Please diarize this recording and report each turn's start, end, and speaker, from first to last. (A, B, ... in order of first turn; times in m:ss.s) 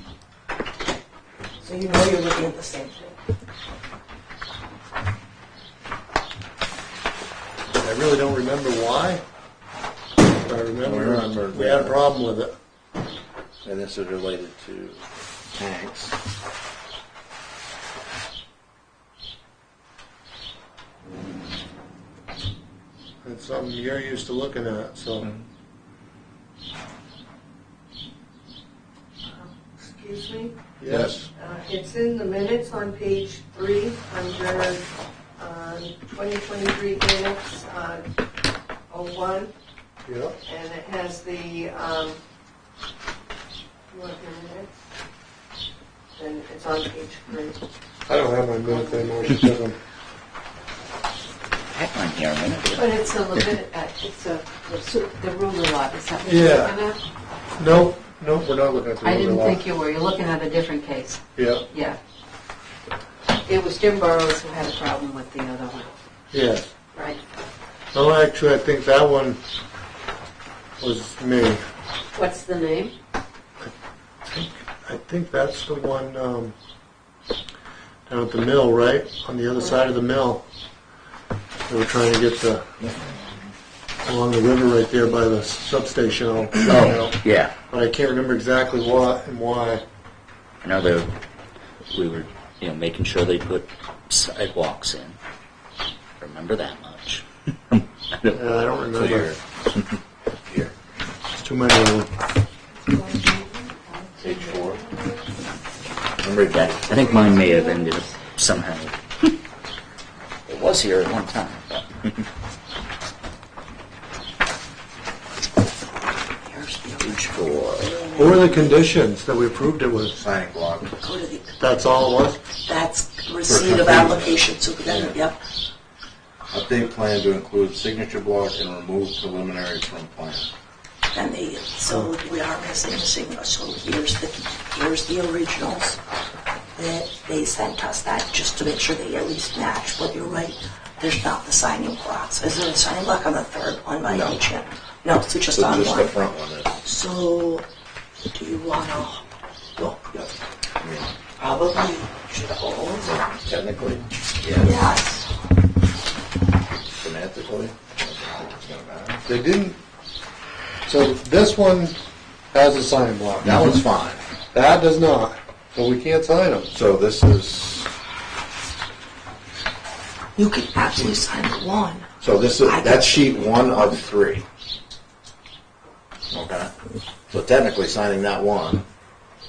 0:01.6-0:03.2 A
0:07.7-0:09.2 B
0:10.4-0:12.5 B
0:10.8-0:12.0 C
0:13.6-0:15.0 C
0:15.5-0:16.2 C
0:23.2-0:25.3 B
0:29.3-0:30.6 D
0:30.8-0:31.1 B
0:30.9-0:31.3 C
0:31.4-0:34.8 D
0:35.4-0:38.0 D
0:38.9-0:39.5 D
0:40.0-0:40.4 B
0:40.4-0:42.2 D
0:43.9-0:44.7 D
0:46.2-0:47.6 D
0:48.1-0:49.8 B
0:48.6-0:49.4 D
0:51.7-0:53.5 E
0:52.7-0:57.0 F
0:56.2-0:56.8 B
0:57.6-0:59.6 B
0:59.0-1:02.0 F
1:01.4-1:01.6 B
1:03.4-1:05.9 F
1:06.3-1:06.7 B
1:07.9-1:09.4 B
1:10.8-1:11.6 B
1:12.1-1:12.9 F
1:14.2-1:16.5 B
1:18.1-1:20.4 B
1:21.7-1:22.6 B
1:24.0-1:27.2 B
1:26.5-1:27.5 E
1:27.7-1:29.8 B
1:30.6-1:31.1 E
1:31.9-1:35.2 E
1:36.2-1:39.8 E
1:38.3-1:39.3 B
1:41.3-1:42.1 B
1:42.7-1:45.3 D
1:44.2-1:44.8 C
1:46.2-1:47.0 C
1:46.5-1:49.3 E
1:47.0-1:47.9 D
1:50.5-1:52.2 E
1:56.4-1:58.9 A
1:57.0-1:57.9 E
1:58.2-2:00.2 B
2:00.1-2:00.9 C
2:01.0-2:01.5 A
2:01.6-2:02.4 B
2:02.6-2:05.4 A
2:03.4-2:05.2 C
2:06.5-2:10.5 C
2:11.1-2:16.0 A
2:16.8-2:26.2 A
2:24.1-2:24.4 C
2:25.5-2:26.8 C
2:26.8-2:27.6 A
2:28.3-2:29.2 A
2:29.8-2:30.3 A
2:30.8-2:31.1 C
2:31.4-2:33.3 A
2:33.3-2:34.9 C
2:34.6-2:35.3 A
2:37.0-2:39.2 C
2:39.2-2:39.8 B
2:40.8-2:42.0 B
2:42.5-2:43.5 B
2:43.4-2:44.2 C
2:44.5-2:46.7 B
2:46.7-2:47.9 C
2:50.4-2:52.1 A
2:52.2-2:54.4 C
2:52.6-2:53.4 A
2:56.3-2:56.7 C
2:57.3-2:58.8 C